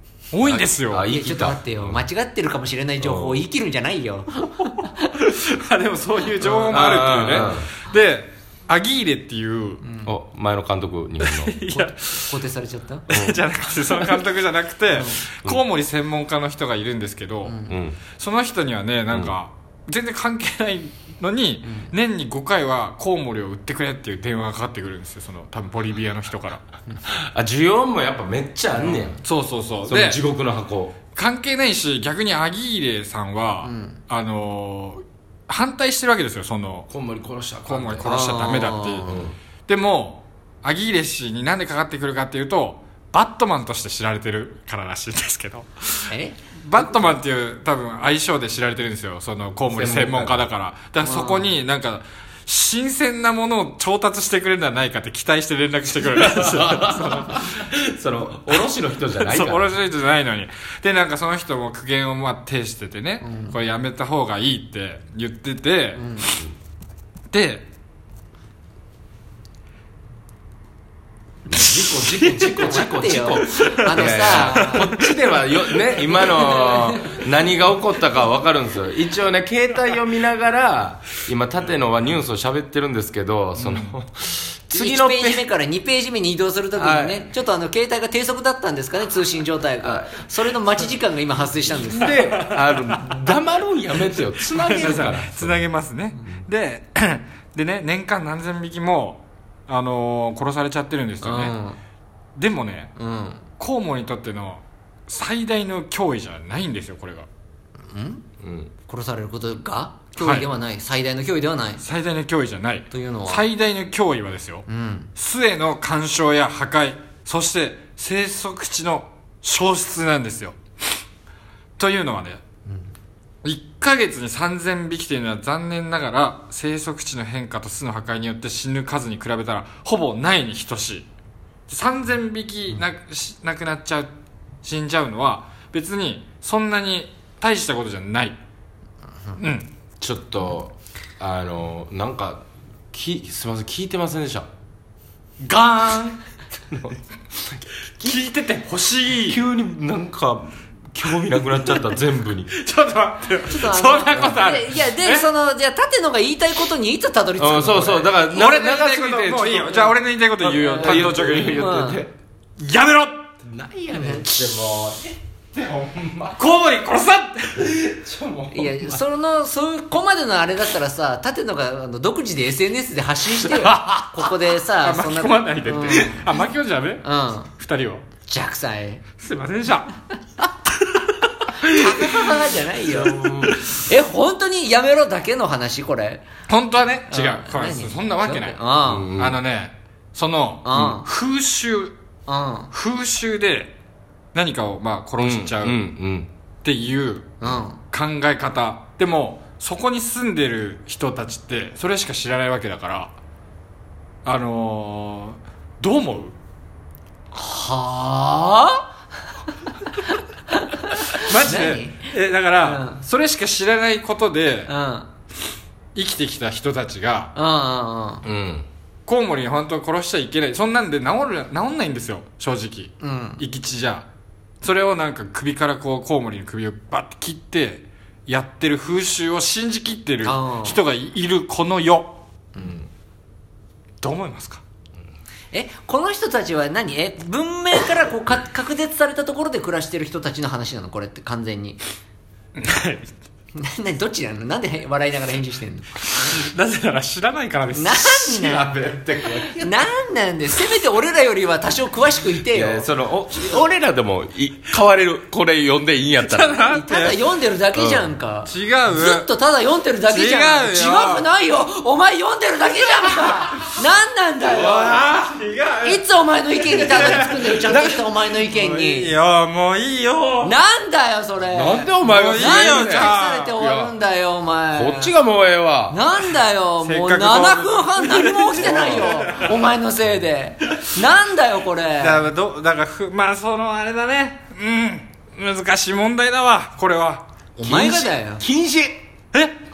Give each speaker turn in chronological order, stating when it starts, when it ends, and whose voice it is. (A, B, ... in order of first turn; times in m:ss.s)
0:00.3-0:01.1 A
0:00.4-0:02.0 B
0:01.1-0:05.0 C
0:03.0-0:03.4 B
0:05.2-0:09.9 A
0:06.7-0:07.7 B
0:09.8-0:10.1 C
0:10.0-0:11.6 B
0:11.2-0:12.4 A
0:11.7-0:13.1 C
0:13.1-0:26.6 A
0:13.1-0:14.2 B
0:14.9-0:15.2 C
0:17.4-0:17.8 C
0:17.7-0:18.0 B
0:21.7-0:21.9 C
0:27.0-0:29.2 B
0:29.2-0:30.2 A
0:29.8-0:31.0 B
0:31.1-0:36.9 A
0:33.6-0:34.0 C
0:36.9-0:38.3 B
0:37.7-0:39.1 A
0:38.0-0:39.3 C
0:39.1-0:39.4 B
0:39.7-0:57.4 A
0:46.1-0:46.4 C
0:49.7-0:50.5 B
0:51.0-0:51.5 C
0:56.0-0:59.7 B
0:59.1-1:06.4 A
1:03.2-1:03.6 C
1:06.0-1:06.3 C
1:07.3-1:07.7 A
1:11.5-1:25.4 B
1:11.6-1:12.7 A
1:12.4-1:14.9 C
1:13.4-1:15.2 A
1:16.1-1:17.2 C
1:23.6-1:24.0 A
1:24.7-1:32.2 C
1:26.8-1:27.3 B
1:29.8-1:30.8 B
1:31.6-1:35.7 B
1:32.3-1:33.2 A
1:34.4-1:41.5 A
1:41.2-1:41.8 C
1:42.4-1:42.9 A
1:43.0-1:43.5 C
1:43.6-1:47.3 A
1:47.8-1:48.2 C
1:48.4-1:48.7 B
1:48.9-1:51.8 C
1:50.2-1:50.5 A
1:51.8-2:00.6 A
1:52.9-1:53.4 C
1:54.7-1:55.1 C
2:01.8-2:02.4 A
2:02.7-2:02.9 C
2:03.4-2:11.1 A
2:11.7-2:14.1 A
2:14.6-2:18.4 A
2:19.4-2:19.7 A
2:20.0-2:24.5 B
2:25.4-2:26.2 A
2:26.7-2:28.2 B
2:28.0-2:29.4 A
2:29.3-2:32.5 B
2:32.5-2:35.3 A
2:33.5-2:38.1 C
2:37.4-2:42.1 B
2:38.3-2:41.8 A
2:40.8-2:42.0 C
2:42.6-2:43.4 A
2:43.4-2:46.4 B
2:43.9-2:44.3 C
2:46.4-2:47.8 A
2:47.6-2:49.0 B
2:48.5-2:56.4 C
2:53.5-2:58.0 A
2:57.0-2:57.5 C
2:58.3-2:59.0 C
2:59.2-3:00.0 A
3:01.0-3:02.3 A
3:01.7-3:06.2 C
3:02.9-3:03.6 B
3:06.5-3:08.6 A
3:07.1-3:09.1 C
3:08.9-3:09.4 B
3:09.2-3:12.0 A
3:10.6-3:11.1 C
3:12.3-3:12.7 C
3:12.7-3:13.8 A
3:14.3-3:15.8 A
3:15.2-3:16.3 B
3:16.6-3:23.1 A
3:17.4-3:17.8 C
3:24.2-3:26.4 A
3:27.3-3:28.9 C
3:30.0-3:33.0 C
3:31.1-3:34.7 A
3:34.7-3:35.1 C
3:36.0-3:37.3 A
3:37.4-3:38.2 C
3:38.2-3:38.7 B
3:39.1-3:44.1 A
3:43.0-3:43.4 C
3:44.6-3:52.2 A
3:50.2-3:50.8 C
3:52.6-3:52.9 B
3:54.0-3:54.6 A
3:55.5-4:01.8 C
4:02.6-4:03.1 A
4:03.6-4:06.4 C
4:06.1-4:08.4 A
4:07.7-4:08.8 C
4:08.4-4:09.8 B
4:09.4-4:12.9 C
4:12.5-4:16.6 B
4:16.2-4:17.2 A
4:16.7-4:25.0 C
4:17.8-4:18.1 B
4:18.5-4:19.3 A
4:20.1-4:21.3 A
4:24.5-4:26.0 A
4:25.8-4:29.2 C
4:26.6-4:30.6 A
4:30.4-4:35.1 C
4:31.5-4:33.9 B
4:32.0-4:33.6 A
4:34.7-4:36.0 B
4:35.9-4:42.2 C
4:36.8-4:39.6 A
4:42.0-4:47.3 A
4:47.6-4:48.4 C
4:47.6-4:49.0 B